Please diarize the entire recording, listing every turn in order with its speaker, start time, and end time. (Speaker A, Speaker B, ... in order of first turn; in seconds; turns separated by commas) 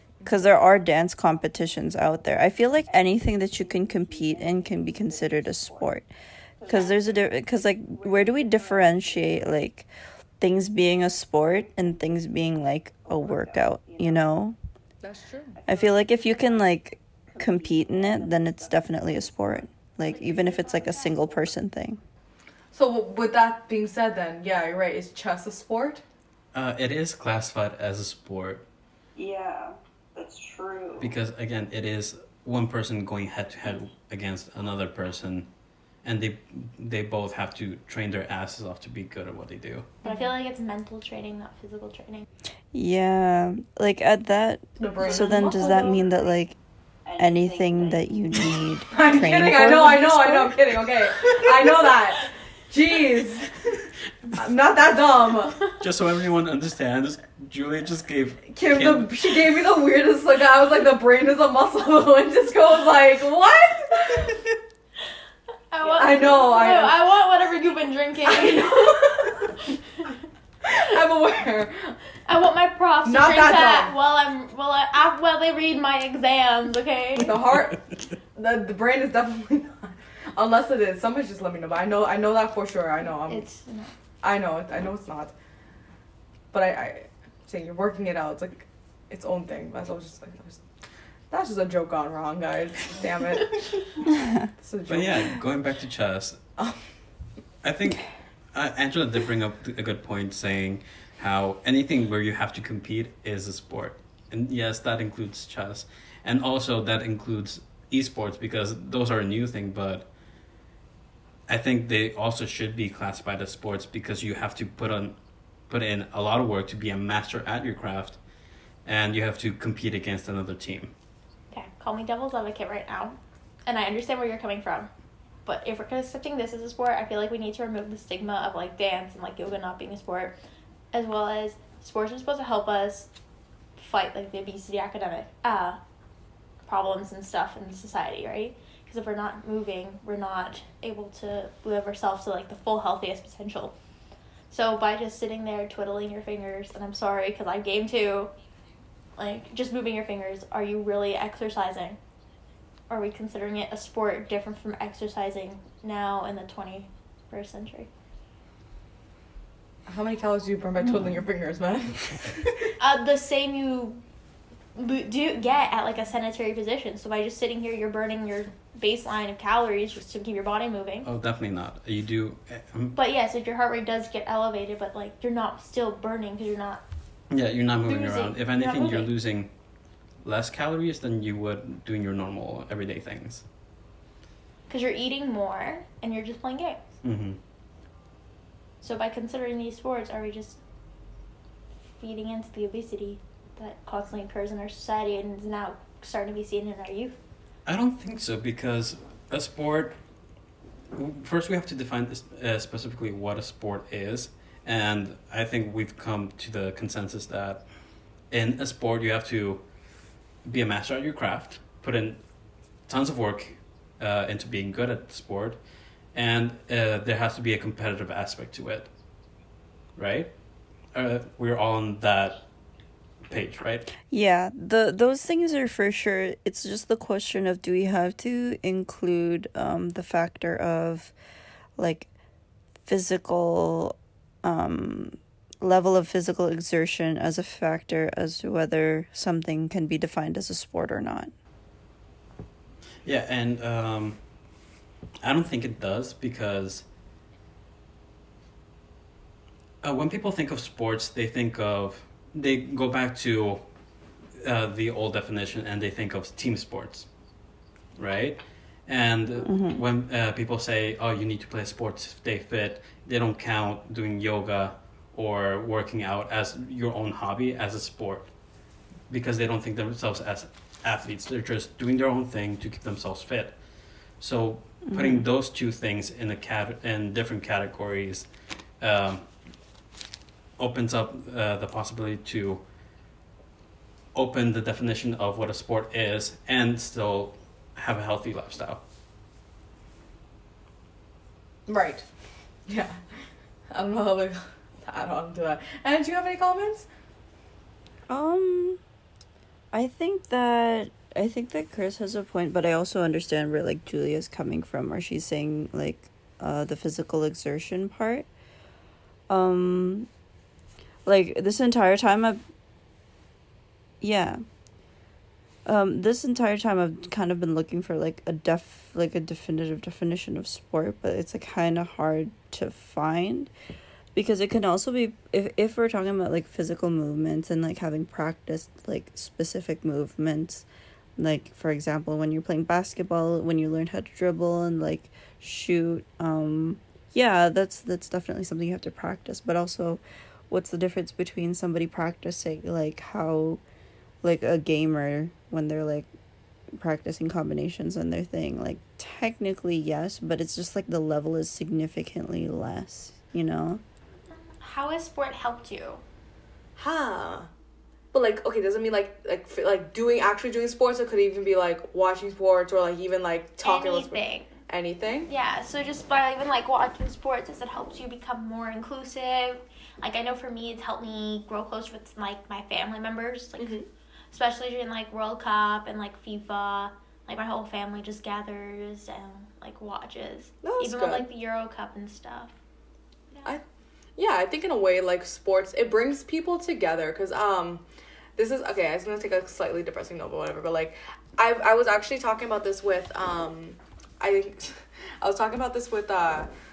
Speaker A: 0.2-6.1, Speaker B: 2.9-6.0, Speaker B: 6.6-9.5, Speaker A: 6.7-9.9, Speaker A: 10.4-14.6, Speaker B: 13.1-14.3, Speaker C: 15.0-15.6, Speaker B: 15.6-16.8, Speaker A: 15.7-22.0, Speaker B: 17.3-21.5, Speaker C: 22.7-26.0, Speaker D: 26.5-28.6, Speaker B: 29.2-31.1, Speaker D: 31.0-35.5, Speaker D: 36.0-39.9, Speaker C: 40.0-40.3, Speaker E: 40.0-42.2, Speaker A: 42.7-46.6, Speaker C: 44.8-46.0, Speaker B: 45.1-46.0, Speaker B: 47.0-48.0, Speaker A: 47.2-50.6, Speaker C: 48.9-53.6, Speaker C: 54.3-55.7, Speaker D: 55.7-59.4, Speaker C: 58.5-64.4, Speaker E: 65.7-70.1, Speaker C: 66.0-67.0, Speaker C: 68.3-69.5, Speaker C: 70.6-72.0, Speaker E: 72.3-77.4, Speaker C: 73.0-73.9, Speaker C: 77.2-77.8, Speaker C: 78.3-83.5, Speaker E: 83.3-83.9, Speaker C: 84.2-85.3, Speaker C: 86.5-90.6, Speaker C: 91.3-93.8, Speaker A: 94.2-94.5, Speaker C: 94.6-95.4, Speaker D: 94.9-96.4, Speaker D: 97.6-110.1, Speaker D: 111.5-115.2, Speaker D: 115.7-118.2, Speaker D: 118.8-120.9, Speaker E: 121.5-124.9, Speaker E: 125.5-130.3, Speaker E: 130.9-133.1, Speaker E: 133.8-135.8, Speaker E: 136.7-143.8, Speaker E: 144.5-148.3, Speaker E: 149.2-152.0, Speaker E: 152.9-157.9, Speaker C: 159.9-162.7, Speaker E: 162.8-164.0, Speaker E: 164.8-171.1, Speaker D: 171.0-173.0, Speaker E: 172.9-176.8, Speaker D: 177.3-179.5, Speaker E: 177.9-179.1, Speaker D: 180.2-183.4, Speaker E: 184.7-186.9, Speaker D: 187.0-187.4, Speaker E: 188.8-190.6, Speaker E: 192.0-197.2, Speaker D: 197.7-199.9, Speaker D: 200.9-207.6, Speaker D: 208.3-209.6, Speaker D: 210.4-212.2, Speaker D: 212.9-215.6, Speaker D: 216.1-218.9, Speaker D: 220.0-220.3, Speaker D: 220.9-222.4, Speaker D: 223.3-223.9, Speaker A: 224.1-231.1, Speaker A: 231.8-232.1, Speaker A: 232.9-241.3, Speaker D: 243.1-244.2, Speaker D: 245.2-246.8, Speaker D: 249.8-253.6, Speaker D: 254.4-257.1, Speaker D: 258.0-268.3, Speaker A: 259.4-259.8, Speaker D: 269.1-273.6, Speaker D: 274.2-278.3, Speaker A: 274.9-275.2, Speaker D: 278.8-279.3, Speaker D: 280.6-282.6, Speaker D: 284.1-288.8, Speaker C: 291.7-292.1, Speaker C: 292.7-293.0, Speaker C: 293.7-296.9, Speaker A: 298.1-298.8, Speaker A: 299.7-308.3, Speaker A: 309.3-310.1, Speaker A: 311.1-312.4, Speaker A: 314.0-314.4, Speaker A: 315.7-323.5, Speaker A: 324.1-330.7, Speaker A: 331.2-343.6, Speaker A: 344.2-346.1, Speaker A: 346.8-353.8, Speaker E: 354.6-356.0, Speaker C: 356.8-357.5, Speaker C: 358.1-365.3, Speaker E: 363.6-364.5, Speaker E: 365.3-373.8, Speaker C: 373.6-373.9, Speaker E: 374.3-382.5, Speaker C: 380.6-381.3, Speaker C: 384.2-387.8, Speaker C: 388.4-396.5